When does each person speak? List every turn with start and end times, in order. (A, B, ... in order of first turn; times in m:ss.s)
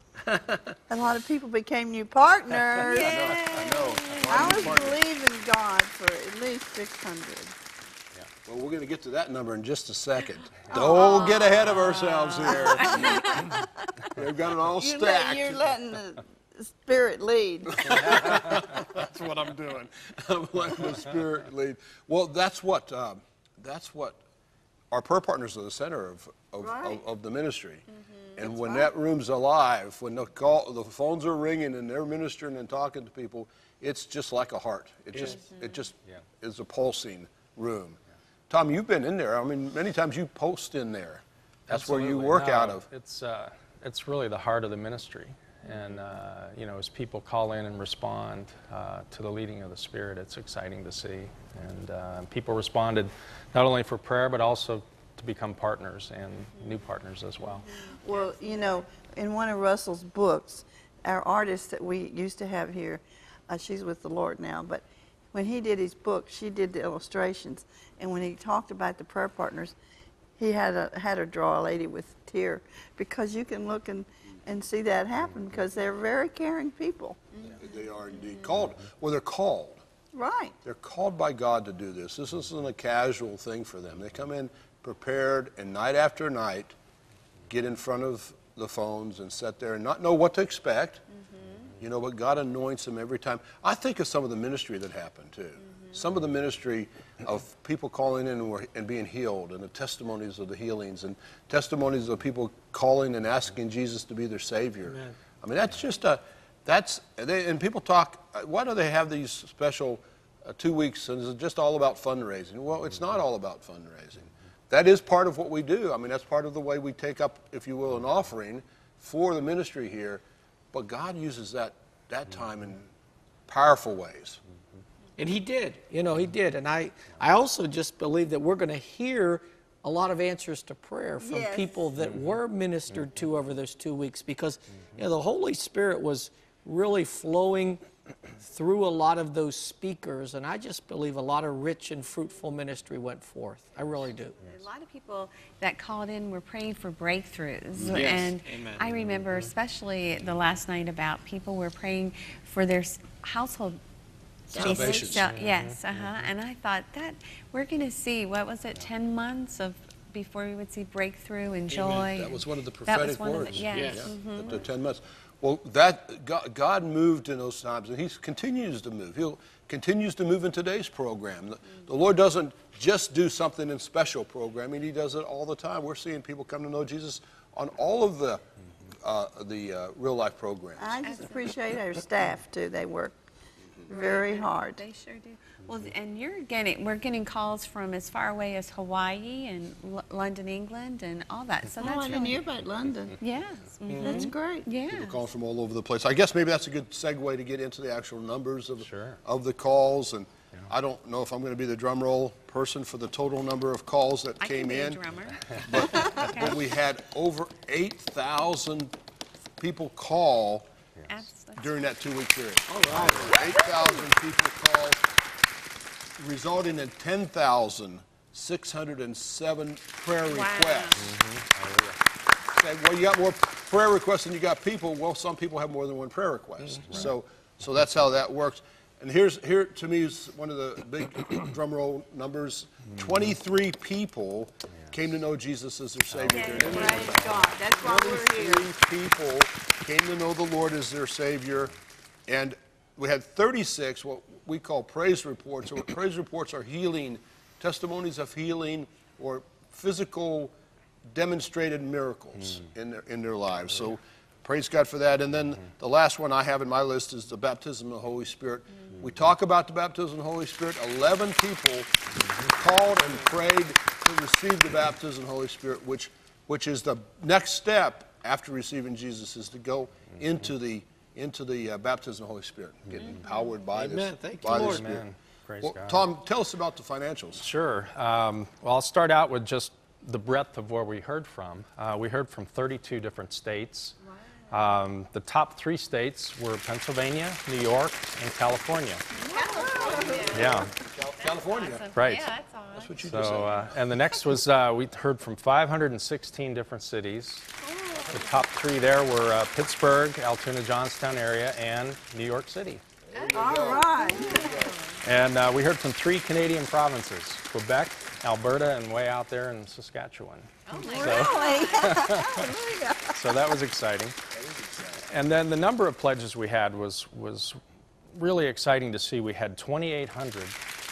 0:00.9-0:03.5 A
0:02.8-0:04.7 B
0:02.8-0:05.0 C
0:04.3-0:07.5 A
0:08.4-0:13.3 C
0:10.7-0:13.6 A
0:10.7-0:13.2 B
0:14.1-0:15.7 C
0:14.8-0:18.2 A
0:17.7-0:24.2 C
0:24.9-0:27.8 C
0:26.6-0:27.0 A
0:28.4-0:38.0 C
0:28.5-0:28.9 A
0:35.3-0:35.8 B
0:38.5-0:42.8 C
0:41.7-0:57.6 D
0:56.5-0:56.8 B
0:57.4-0:58.9 B
0:58.0-1:09.8 A
1:10.4-1:17.2 A
1:17.6-1:19.8 C
1:20.1-1:20.6 A
1:20.6-1:26.7 C
1:27.5-1:31.0 C
1:31.1-1:31.7 B
1:31.8-2:02.8 C
1:35.6-1:36.0 B
1:44.9-1:45.1 E
2:03.5-2:04.4 C
2:05.2-2:17.8 E
2:11.2-2:11.9 A
2:18.4-2:24.4 E
2:24.4-2:33.8 B
2:27.9-2:28.8 E
2:34.5-2:44.6 B
2:34.5-2:35.2 C
2:35.3-2:36.2 D
2:41.7-2:58.4 C
2:59.0-3:01.1 C
3:00.8-3:03.2 A
3:01.0-3:01.5 B
3:03.9-3:04.8 A
3:03.9-3:12.4 B
3:11.8-3:13.2 A
3:13.2-3:15.2 B
3:13.9-3:14.3 E
3:14.0-3:14.7 A
3:14.9-3:25.0 C
3:18.8-3:19.2 D
3:24.4-3:26.6 B
3:25.6-3:28.9 C
3:29.6-3:30.7 C
3:31.1-3:31.8 B
3:31.6-3:35.0 C
3:32.7-3:33.4 E
3:32.9-3:33.4 D
3:33.5-3:34.0 B
3:36.2-3:41.1 C
3:40.2-3:41.1 B
3:41.4-3:41.9 D
3:42.5-4:01.7 C
3:53.0-3:53.3 D
3:56.3-3:57.2 B
3:56.3-3:58.7 A
4:02.3-4:10.5 C
4:11.1-4:21.9 C
4:22.5-4:35.1 C
4:33.0-4:33.4 B
4:33.7-4:35.0 E
4:34.4-4:36.0 D
4:35.6-4:37.5 C
4:37.4-4:43.9 D
4:44.5-4:49.0 D
4:49.1-4:53.1 B
4:49.3-4:50.5 A
4:49.5-4:51.9 C
4:50.3-4:50.7 D
4:51.9-4:52.3 D
4:52.7-4:53.7 C
4:53.0-4:57.5 D
4:57.6-4:58.4 B
4:58.1-5:02.8 D
5:03.1-5:04.8 C
5:03.1-5:03.4 B
5:03.3-5:04.7 A
5:04.0-5:05.0 B
5:05.0-5:12.5 D
5:10.7-5:12.2 B
5:10.8-5:13.2 A
5:13.1-5:14.1 D
5:14.3-5:15.0 C
5:15.1-5:17.6 D
5:18.1-5:20.6 D